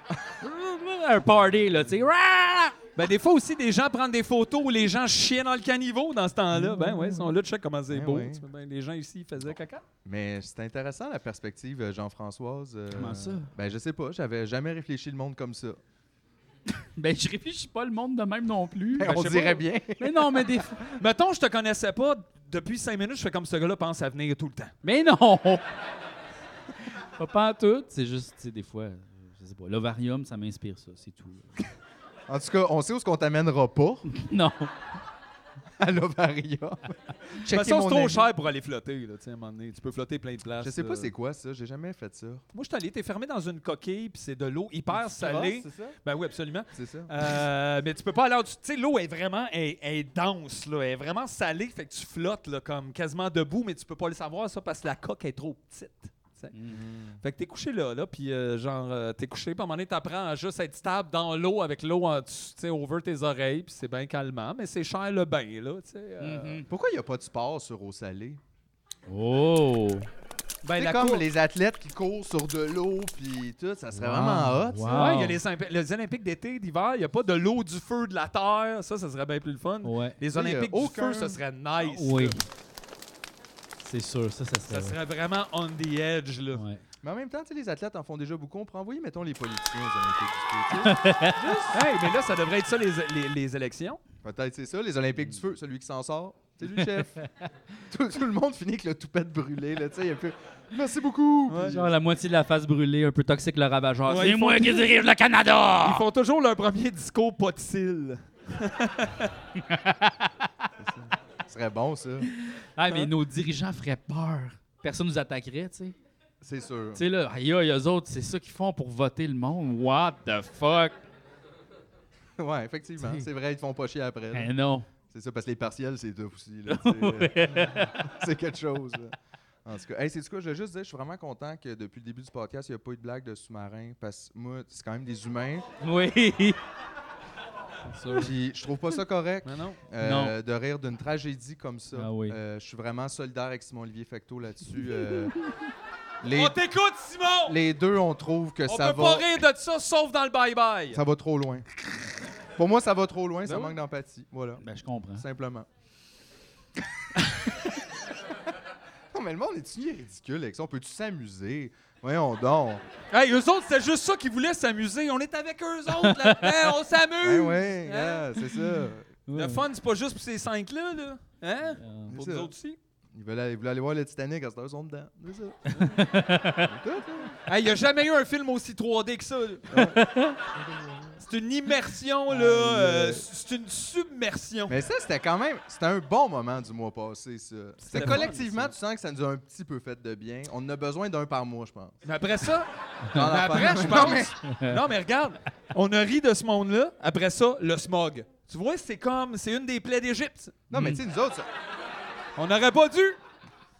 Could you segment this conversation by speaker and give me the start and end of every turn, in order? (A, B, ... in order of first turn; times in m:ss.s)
0:00.4-0:02.8 A
0:03.0-0:09.8 B
0:06.5-0:07.3 A
0:07.9-0:08.4 C
0:10.0-0:15.8 C
0:12.9-0:13.5 A
0:17.0-0:19.1 A
0:19.0-0:20.4 C
0:19.0-0:19.6 B
0:20.0-0:20.8 A
0:21.0-0:24.7 B
0:24.8-0:25.6 A
0:26.9-0:31.6 A
0:32.3-0:34.0 C
0:34.1-0:34.7 A
0:35.8-0:38.3 C
0:37.5-0:41.1 B
0:40.6-0:42.4 C
0:42.5-0:56.5 B
0:44.9-0:46.0 C
0:46.7-0:47.4 C
0:56.5-0:56.8 A
0:56.7-0:57.2 C
0:57.2-1:06.6 B
1:06.2-1:06.6 A
1:06.7-1:08.4 C
1:09.1-1:10.1 A
1:10.6-1:11.2 B
1:10.7-1:15.2 C
1:13.9-1:15.4 A
1:14.9-1:22.4 B
1:19.8-1:20.2 A
1:20.3-1:21.4 C
1:21.8-1:22.4 A
1:23.8-1:25.0 A
1:24.7-1:26.6 B
1:26.5-1:26.8 A
1:27.0-1:31.5 C
1:30.8-1:31.7 A
1:31.5-1:34.0 B
1:34.2-1:37.1 C
1:37.9-1:41.9 C
1:41.5-1:41.8 B
1:41.6-1:46.0 A
1:44.1-1:44.9 B
1:45.8-1:49.3 B
1:49.6-1:50.6 A
1:50.8-1:52.3 C
1:52.6-1:55.9 A
1:56.4-1:57.0 C
1:56.9-2:01.0 A
2:02.4-2:04.5 C
2:03.0-2:03.3 A
2:04.3-2:04.9 A
2:05.1-2:15.6 C
2:06.7-2:08.0 A
2:15.8-2:16.6 A
2:17.9-2:18.3 A
2:18.0-2:18.3 B
2:18.2-2:25.3 C
2:19.4-2:19.8 B
2:20.0-2:20.4 A
2:21.9-2:22.4 A
2:26.2-2:26.6 C
2:26.3-2:27.6 B
2:27.5-2:29.3 C
2:28.6-2:31.0 B
2:30.9-2:31.6 C
2:32.6-2:34.6 C
2:33.4-2:33.7 B
2:34.6-2:35.2 A
2:35.2-2:35.7 C
2:39.1-2:42.8 C
2:43.1-2:48.3 B
2:46.0-2:46.7 A
2:47.2-2:49.1 C
2:49.3-2:49.6 A
2:49.3-2:52.8 B
2:51.8-2:52.1 A
2:52.1-2:52.5 C
2:53.1-2:56.1 C
2:55.8-2:56.8 A
2:56.6-2:57.4 C
2:57.4-2:59.9 B
2:59.7-3:00.0 C
2:59.9-3:00.4 A
3:00.6-3:01.1 C
3:01.2-3:04.8 B
3:02.3-3:03.2 C
3:04.7-3:12.0 C
3:07.9-3:08.7 B
3:12.0-3:20.6 B
3:13.0-3:13.9 A
3:13.1-3:14.3 C
3:14.4-3:14.8 A
3:20.7-3:21.4 C
3:20.7-3:21.0 A
3:22.4-3:23.2 B